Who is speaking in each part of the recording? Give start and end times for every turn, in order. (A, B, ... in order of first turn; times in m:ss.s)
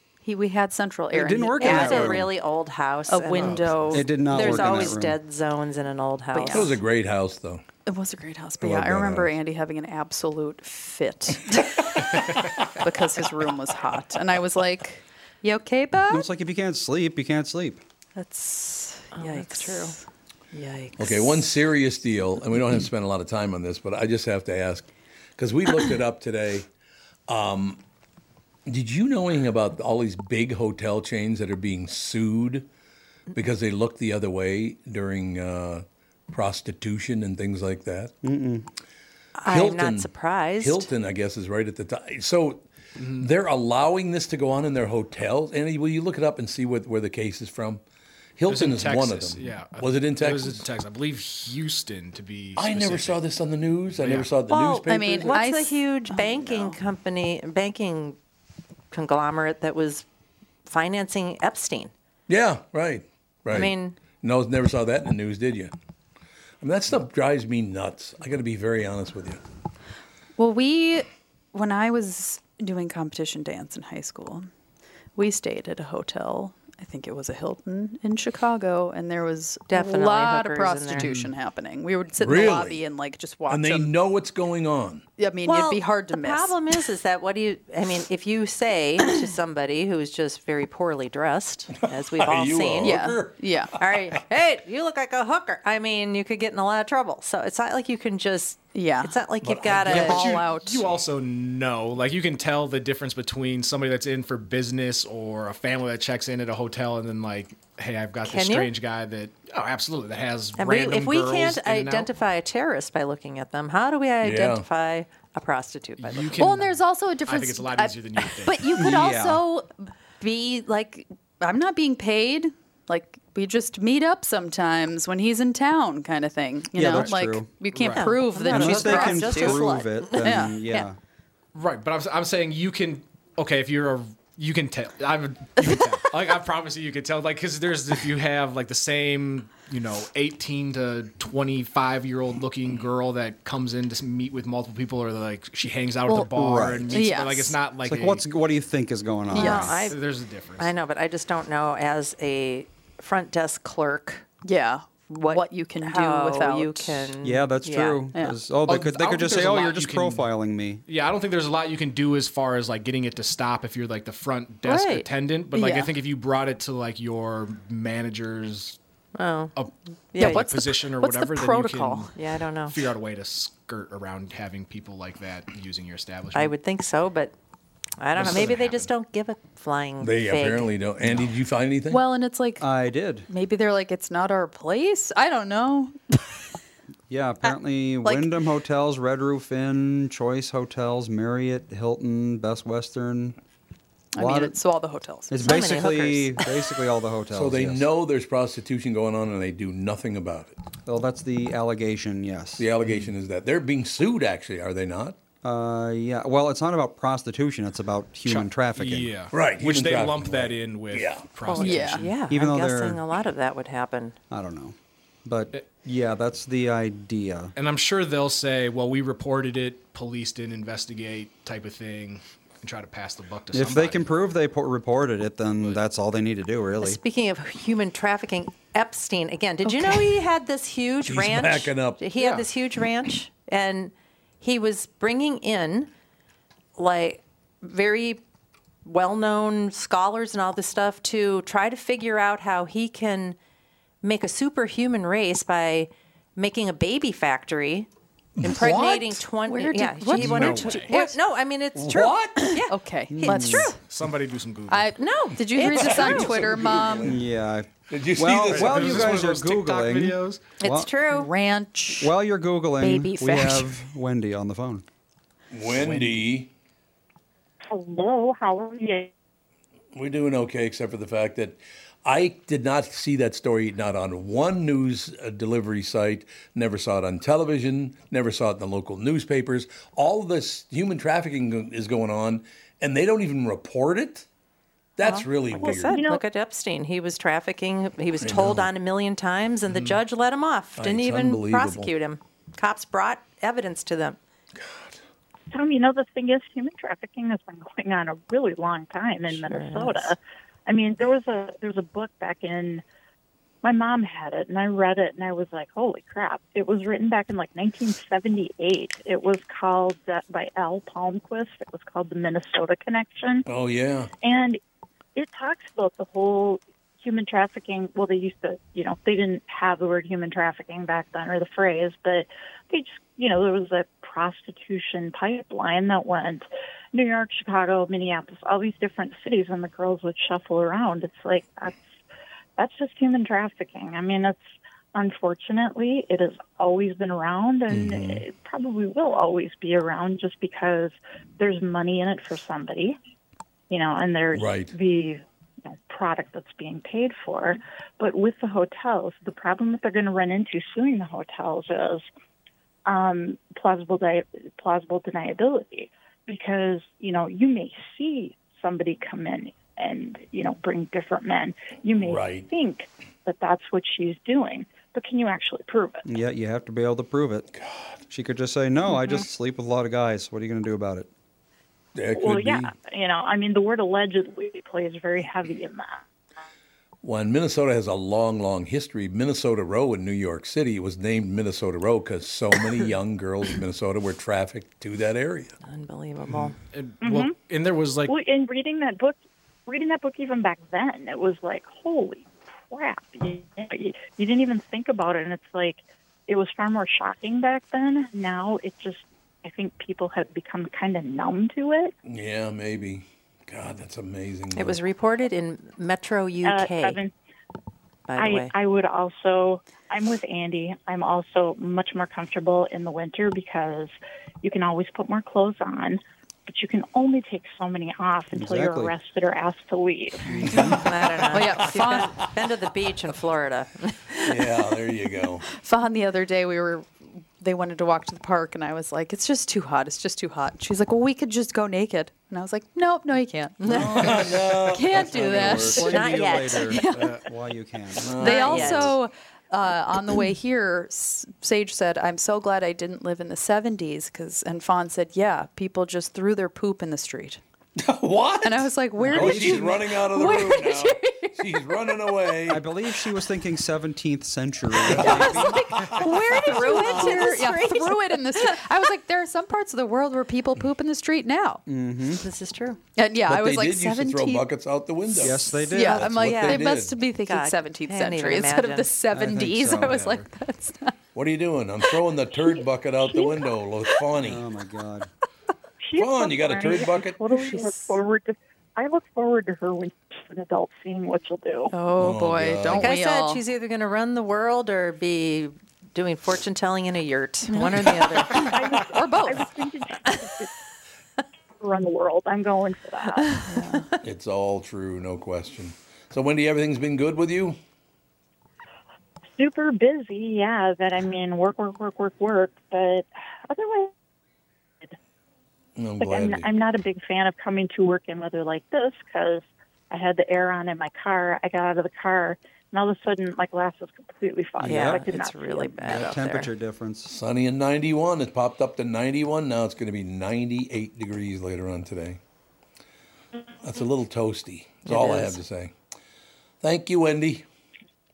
0:00.2-0:02.2 A
0:01.1-0:02.3 B
0:01.6-0:06.8 C
0:03.1-0:04.9 A
0:03.3-0:04.0 D
0:03.9-0:05.2 B
0:06.3-0:06.8 A
0:06.5-0:07.6 E
0:07.8-0:12.0 A
0:08.6-0:09.3 E
0:12.8-0:15.0 A
0:15.4-0:16.2 C
0:16.1-0:17.8 B
0:18.2-0:20.0 A
0:19.1-0:19.9 C
0:20.5-0:21.4 C
0:21.0-0:24.9 E
0:25.4-0:26.7 E
0:27.3-0:27.8 E
0:28.6-0:32.7 E
0:33.3-0:38.1 E
0:38.2-0:38.7 B
0:39.4-0:40.9 C
0:39.4-0:47.8 E
0:43.0-0:43.3 D
0:48.4-0:50.6 E
0:48.5-0:53.2 D
0:52.6-0:55.4 E
0:53.9-0:54.4 D
0:54.5-0:58.2 C
0:54.9-0:56.8 A
0:58.9-1:00.0 C
1:00.6-1:01.9 C
1:02.3-1:05.7 E
1:03.5-1:04.0 C
1:06.6-1:09.4 E
1:10.4-1:14.5 A
1:15.2-1:23.9 A
1:19.7-1:21.1 C
1:22.2-1:22.8 E
1:23.5-1:25.0 E
1:25.2-1:26.6 A
1:25.4-1:33.1 C
1:31.8-1:33.4 E
1:32.8-1:33.7 A
1:33.8-1:40.3 C
1:38.7-1:39.2 A
1:39.4-1:40.3 E
1:39.7-1:52.1 D
1:39.9-1:40.8 A
1:48.2-1:48.7 C
1:50.6-1:56.4 C
1:54.2-1:54.6 E
1:56.0-1:58.8 D
1:56.4-2:10.6 A
1:58.7-1:59.4 B
2:06.7-2:07.5 B
2:07.7-2:08.1 D
2:07.9-2:10.8 C
2:08.4-2:11.0 B
2:11.5-2:28.2 D
2:26.3-2:27.0 B
2:26.9-2:27.6 A
2:27.8-2:29.8 B
2:29.3-2:30.0 C
2:29.3-2:29.7 A
2:29.4-2:30.7 D
2:30.6-2:34.3 C
2:34.4-2:37.1 A
2:35.1-2:38.0 C
2:37.2-2:40.8 B
2:38.6-2:40.3 D
2:40.8-2:48.8 D
2:44.6-2:45.1 C
2:45.5-2:45.9 A
2:49.2-2:49.5 C
2:49.6-2:52.1 D
2:50.1-2:50.5 C
2:50.2-2:52.1 A
2:52.1-2:52.8 C
2:52.7-2:56.6 D
2:56.3-2:57.3 C
2:58.0-3:00.7 C
2:58.1-2:58.9 D
3:00.0-3:02.0 E
3:01.9-3:02.6 A
3:02.6-3:03.3 B
3:03.3-3:06.4 A
3:07.1-3:13.4 B
3:07.4-3:08.3 A
3:14.1-3:15.4 A
3:14.2-3:14.6 B
3:15.3-3:17.8 B
3:15.4-3:16.4 C
3:17.3-3:20.5 E
3:20.8-3:22.6 B
3:22.6-3:25.2 E
3:25.4-3:29.1 B
3:28.2-3:32.2 D
3:29.3-3:31.3 E
3:31.4-3:34.2 C
3:31.5-3:32.0 A
3:32.3-3:33.0 B
3:34.3-3:37.5 B
3:37.6-3:44.1 D
3:43.5-3:47.0 B
3:46.8-3:55.9 C
3:49.6-3:50.0 A
3:51.0-3:52.0 E
3:52.2-3:52.4 D
3:56.8-3:58.2 C
3:58.8-4:03.4 C
4:04.0-4:07.9 C
4:08.4-4:09.1 E
4:08.4-4:13.8 C
4:09.4-4:11.1 A
4:10.1-4:11.0 D
4:11.8-4:12.5 E
4:12.4-4:13.8 A
4:13.1-4:13.7 B
4:13.8-4:15.0 D
4:14.7-4:17.1 A
4:15.0-4:16.4 C
4:15.6-4:17.2 E
4:17.0-4:20.9 B
4:17.9-4:19.2 E
4:18.4-4:20.5 D
4:20.6-4:21.3 C
4:21.1-4:22.1 A
4:22.0-4:24.8 B
4:22.8-4:23.6 A
4:25.5-4:26.5 E
4:25.7-4:26.2 D
4:27.7-4:29.1 F
4:29.9-4:44.2 E
4:45.0-4:46.0 E
4:45.0-4:54.2 C
4:45.6-4:46.2 F
4:48.2-4:48.7 E
4:50.8-4:51.9 E
4:54.6-4:55.0 E
4:55.5-5:02.8 F
4:59.3-5:00.1 C
5:03.6-5:13.5 F
5:13.4-5:14.1 E
5:14.2-5:14.6 F
5:15.2-5:31.8 F
5:32.6-5:43.0 F
5:37.7-5:38.2 E
5:43.7-5:52.0 F
5:44.3-5:44.7 E
5:52.8-6:06.0 F
6:02.0-6:02.5 E
6:06.0-6:07.5 B
6:07.5-6:08.0 E
6:08.1-6:11.1 B
6:11.9-6:12.7 E
6:12.1-6:16.0 F
6:17.0-6:25.5 E
6:25.6-6:26.6 C
6:26.3-6:28.1 D
6:27.0-6:27.3 F
6:28.1-6:41.9 F
6:42.0-6:44.8 E
6:44.5-6:47.0 C
6:46.4-6:47.1 F
6:48.1-6:48.5 C
6:48.2-7:00.4 F
6:58.3-6:58.9 B
7:00.4-7:00.8 B
7:00.4-7:00.9 E
7:00.5-7:04.5 C
7:01.3-7:02.1 A
7:04.2-7:05.4 E
7:05.5-7:14.1 A
7:13.6-7:14.1 C
7:13.6-7:15.9 E
7:14.7-7:17.1 A
7:15.1-7:18.2 B
7:15.8-7:16.9 C
7:16.9-7:17.2 D
7:18.0-7:18.9 E
7:18.2-7:27.4 A
7:18.2-7:18.9 C
7:27.8-7:32.6 E
7:28.4-7:31.6 A
7:29.0-7:29.8 B
7:32.5-7:35.8 B
7:34.8-7:36.9 E
7:34.9-7:41.6 A
7:35.0-7:35.3 C
7:36.0-7:38.6 C
7:41.6-7:42.2 B
7:42.2-7:42.8 C
7:43.0-7:44.4 A
7:43.3-7:47.0 E
7:45.2-7:46.3 B
7:45.6-7:50.9 A
7:46.2-7:48.9 C
7:49.1-7:50.1 B
7:49.8-7:50.2 D
7:51.1-7:54.4 E
7:54.2-7:55.1 B
7:55.8-8:01.7 F
7:56.0-7:57.2 E
7:57.3-7:58.0 A
8:01.7-8:03.4 A
8:02.0-8:02.9 E
8:02.8-8:09.3 C
8:07.5-8:09.5 A
8:08.4-8:10.5 F
8:11.6-8:13.4 F
8:13.2-8:14.0 C
8:13.4-8:13.8 A
8:14.0-8:17.6 E
8:19.4-8:23.9 F
8:25.8-8:26.5 E
8:26.0-8:36.0 F
8:34.6-8:35.1 B
8:34.6-8:36.5 C
8:35.8-8:37.1 B
8:37.1-8:42.2 E
8:43.6-8:45.7 E
8:44.8-8:45.4 C
8:46.6-8:47.4 E